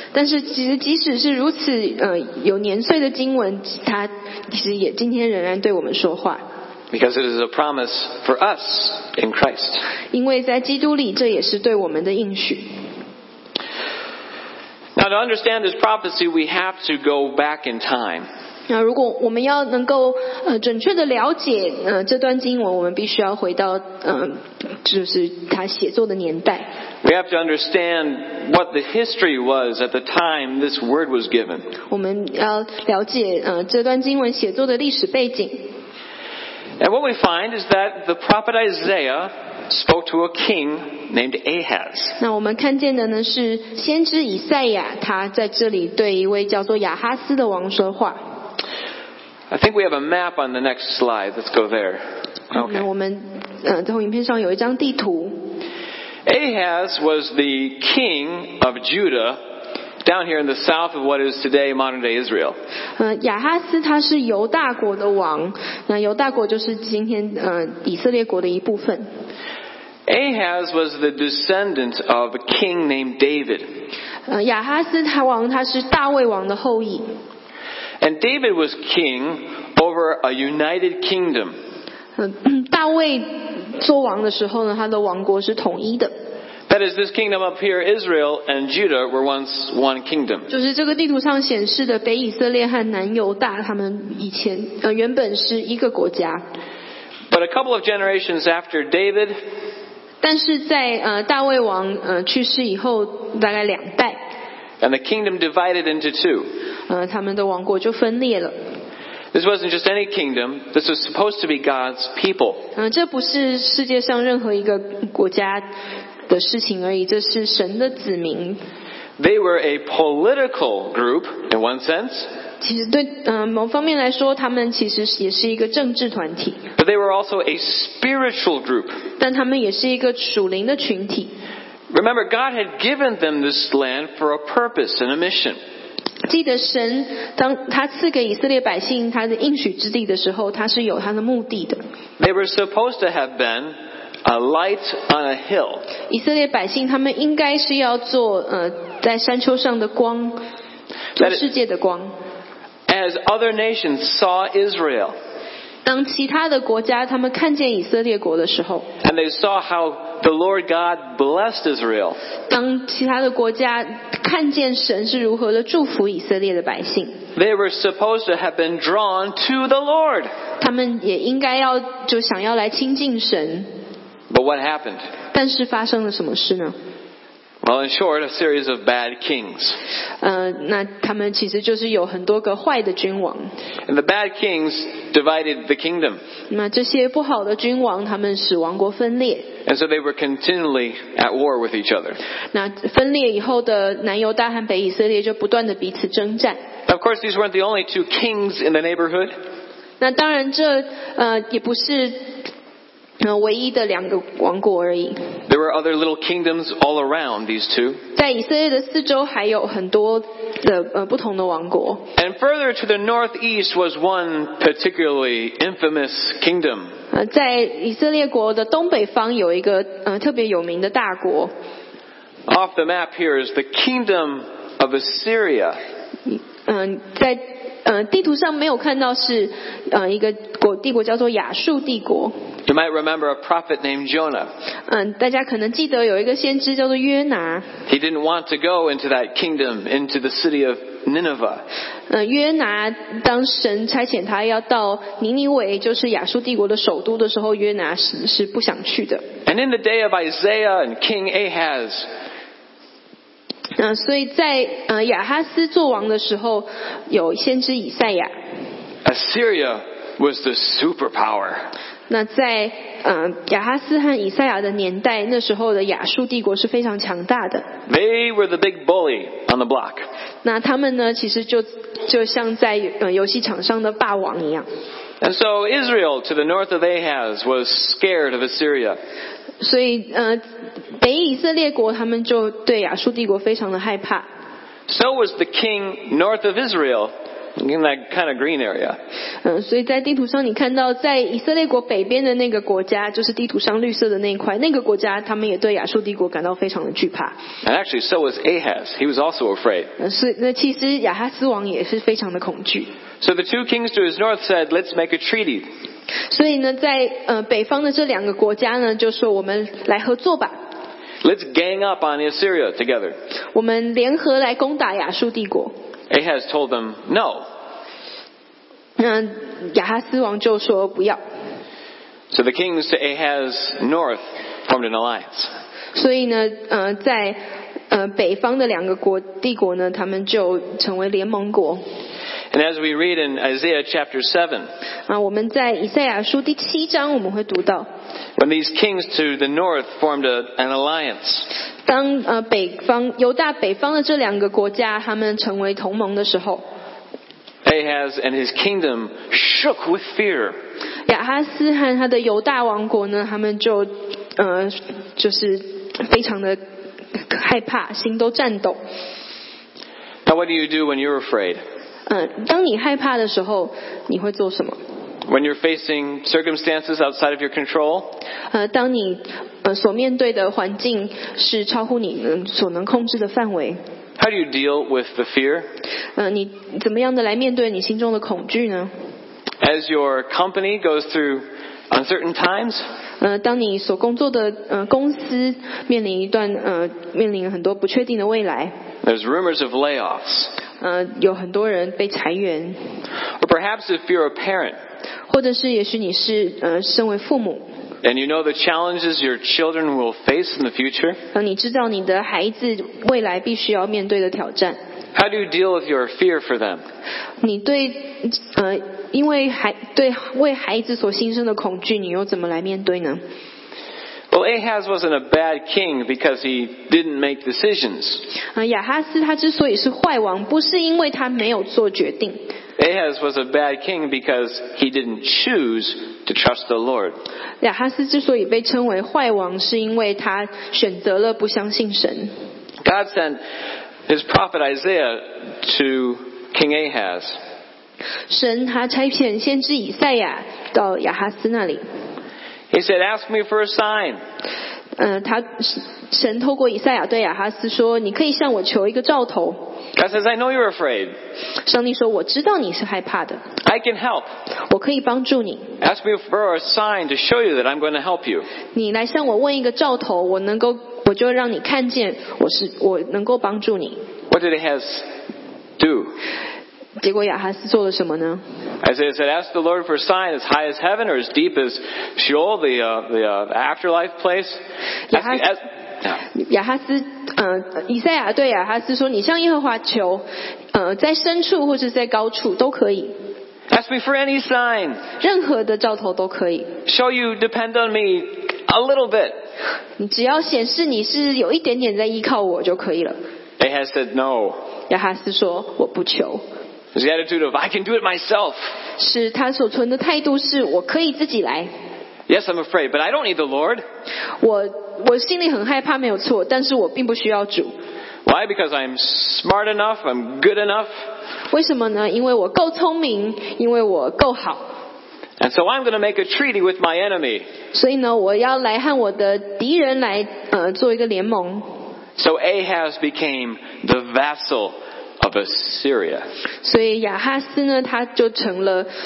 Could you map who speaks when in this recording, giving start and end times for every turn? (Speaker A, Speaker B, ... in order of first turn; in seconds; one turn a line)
Speaker A: 0.1-6.4
Speaker B: 6.9-9.8
Speaker A: 10.1-12.7
Speaker B: 15.0-18.3
Speaker A: 18.7-26.7
Speaker B: 27.0-31.7
Speaker A: 31.9-35.7
Speaker B: 36.8-42.2
Speaker A: 42.2-48.2
Speaker B: 49.5-52.0
Speaker A: 52.5-55.4
Speaker B: 56.3-59.4
Speaker B: 60.0-62.6
Speaker A: 63.0-69.1
Speaker B: 70.1-73.7
Speaker A: 74.3-77.1
Speaker B: 78.0-81.6
Speaker A: 82.2-86.1
Speaker B: 86.7-90.5
Speaker A: 90.5-96.4
Speaker B: 97.3-99.4
Speaker A: 100.2-104.2
Speaker B: 104.8-106.5
Speaker A: 106.9-108.6
Speaker B: 109.3-112.6
Speaker A: 112.8-115.7
Speaker A: 116.3-118.6
Speaker B: 119.2-122.3
Speaker A: 122.6-126.6
Speaker B: 126.8-129.0
Speaker A: 129.2-131.3
Speaker B: 131.9-135.6
Speaker A: 136.3-141.8
Speaker B: 142.2-145.9
Speaker A: 146.1-150.4
Speaker A: 151.2-152.1
Speaker B: 152.9-155.2
Speaker A: 155.8-158.9
Speaker B: 159.0-162.2
Speaker A: 162.5-167.2
Speaker B: 167.3-170.3
Speaker A: 170.6-173.7
Speaker B: 174.3-175.1
Speaker A: 175.3-176.8
Speaker B: 177.6-179.8
Speaker A: 180.2-183.5
Speaker B: 183.9-186.2
Speaker A: 186.5-189.5
Speaker B: 189.7-192.2
Speaker A: 192.5-196.6
Speaker B: 196.9-199.4
Speaker A: 200.0-202.3
Speaker A: 203.2-205.2
Speaker B: 205.5-208.0
Speaker A: 208.2-212.1
Speaker B: 212.2-216.9
Speaker A: 217.1-221.5
Speaker B: 222.5-225.8
Speaker A: 226.3-232.3
Speaker B: 232.7-234.5
Speaker A: 234.9-237.7
Speaker B: 237.9-241.6
Speaker A: 242.1-249.2
Speaker B: 249.5-252.1
Speaker A: 253.8-258.3
Speaker B: 259.1-261.7
Speaker A: 262.1-267.7
Speaker B: 267.9-270.1
Speaker A: 270.4-274.7
Speaker B: 275.2-279.0
Speaker A: 279.6-280.4
Speaker A: 281.0-284.3
Speaker B: 284.9-289.0
Speaker A: 289.4-297.4
Speaker B: 297.6-299.9
Speaker A: 300.0-302.9
Speaker B: 303.2-305.7
Speaker A: 306.3-310.6
Speaker B: 311.2-313.2
Speaker A: 313.5-315.7
Speaker B: 316.1-317.5
Speaker A: 319.0-321.2
Speaker B: 322.3-325.5
Speaker A: 325.9-327.4
Speaker A: 327.9-331.8
Speaker B: 332.5-334.7
Speaker A: 335.1-337.9
Speaker B: 338.4-341.5
Speaker A: 341.9-346.6
Speaker B: 347.6-350.6
Speaker A: 351.1-356.6
Speaker A: 357.1-358.8
Speaker B: 360.2-361.6
Speaker A: 362.1-364.8
Speaker B: 365.3-368.1
Speaker A: 368.5-373.8
Speaker B: 374.2-375.7
Speaker A: 376.2-378.9
Speaker B: 379.6-382.9
Speaker A: 383.2-388.7
Speaker B: 389.0-390.5
Speaker A: 390.8-392.8
Speaker B: 393.4-394.8
Speaker A: 395.3-397.7
Speaker B: 398.0-401.2
Speaker A: 401.3-404.8
Speaker B: 405.1-406.8
Speaker A: 407.4-413.2
Speaker B: 414.3-418.2
Speaker A: 418.6-422.4
Speaker B: 422.8-427.2
Speaker A: 427.6-432.3
Speaker B: 432.8-433.4
Speaker B: 434.1-437.4
Speaker A: 438.3-441.8
Speaker B: 442.7-444.2
Speaker A: 445.0-449.6
Speaker B: 449.9-451.1
Speaker A: 451.7-453.4
Speaker B: 453.6-454.3
Speaker A: 454.7-455.7
Speaker B: 455.8-458.5
Speaker A: 458.7-464.0
Speaker B: 464.3-465.1
Speaker B: 465.8-466.1
Speaker A: 467.0-468.4
Speaker B: 468.8-474.6
Speaker A: 475.1-475.5
Speaker B: 475.1-476.2
Speaker A: 476.3-483.1
Speaker B: 483.7-485.0
Speaker A: 485.2-486.7
Speaker B: 486.9-489.4
Speaker A: 490.0-493.2
Speaker B: 493.6-494.6
Speaker A: 494.9-496.4
Speaker B: 496.9-498.7
Speaker A: 499.0-501.7
Speaker B: 502.3-503.8
Speaker A: 504.4-507.7
Speaker B: 508.2-510.9
Speaker A: 511.5-514.7
Speaker B: 515.4-517.5
Speaker A: 517.7-521.8
Speaker B: 522.2-526.3
Speaker A: 526.6-528.9